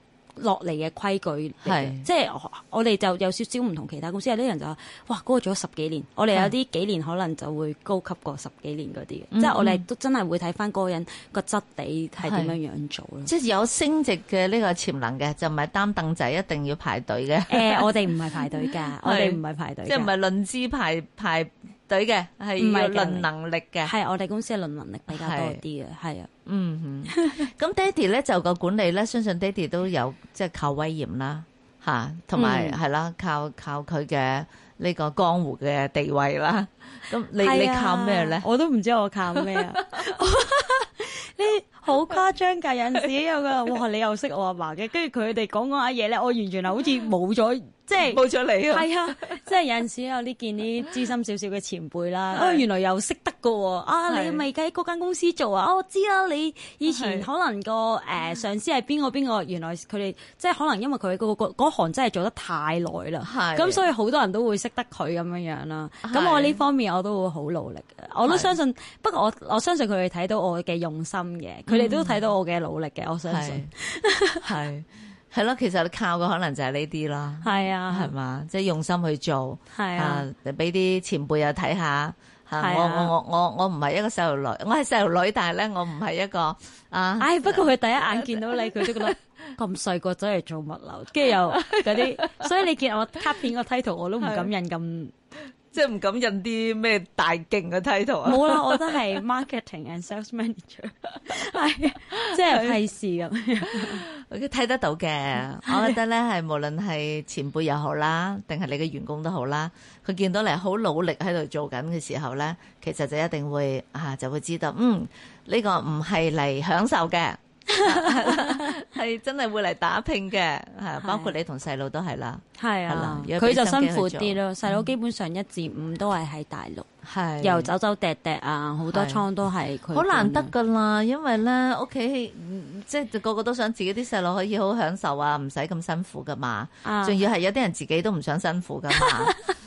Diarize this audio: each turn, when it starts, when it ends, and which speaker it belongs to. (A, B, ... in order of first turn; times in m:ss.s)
0:00.4-0:13.3 A
0:01.6-0:02.0 B
0:09.3-0:09.8 B
0:12.2-0:12.6 B
0:13.2-0:18.5 B
0:17.5-0:20.1 A
0:19.0-0:23.9 B
0:22.6-0:23.2 A
0:23.8-0:26.3 A
0:25.1-0:25.6 B
0:26.4-0:38.4 B
0:27.1-0:27.5 A
0:32.3-0:32.8 A
0:37.4-1:14.4 A
0:39.3-0:40.2 B
0:48.0-0:49.4 B
0:52.3-0:52.6 B
0:54.1-0:54.4 B
0:56.9-0:57.3 B
1:03.2-1:03.8 B
1:06.0-1:06.6 B
1:08.2-1:08.5 B
1:11.7-1:12.2 B
1:13.3-1:13.7 B
1:14.4-1:29.2 B
1:17.4-1:18.1 A
1:19.7-1:20.2 A
1:22.6-1:23.1 A
1:27.2-1:35.1 A
1:31.5-1:32.5 B
1:34.2-1:34.5 B
1:35.7-1:39.0 B
1:38.2-1:44.0 A
1:42.1-1:42.8 B
1:43.7-2:04.9 B
1:45.6-1:46.0 A
1:57.7-1:58.7 A
2:01.0-2:01.3 A
2:02.6-2:06.9 A
2:07.0-2:07.7 B
2:07.4-2:10.5 A
2:08.9-2:09.2 B
2:09.9-2:19.4 B
2:16.8-2:17.2 A
2:18.9-2:19.5 A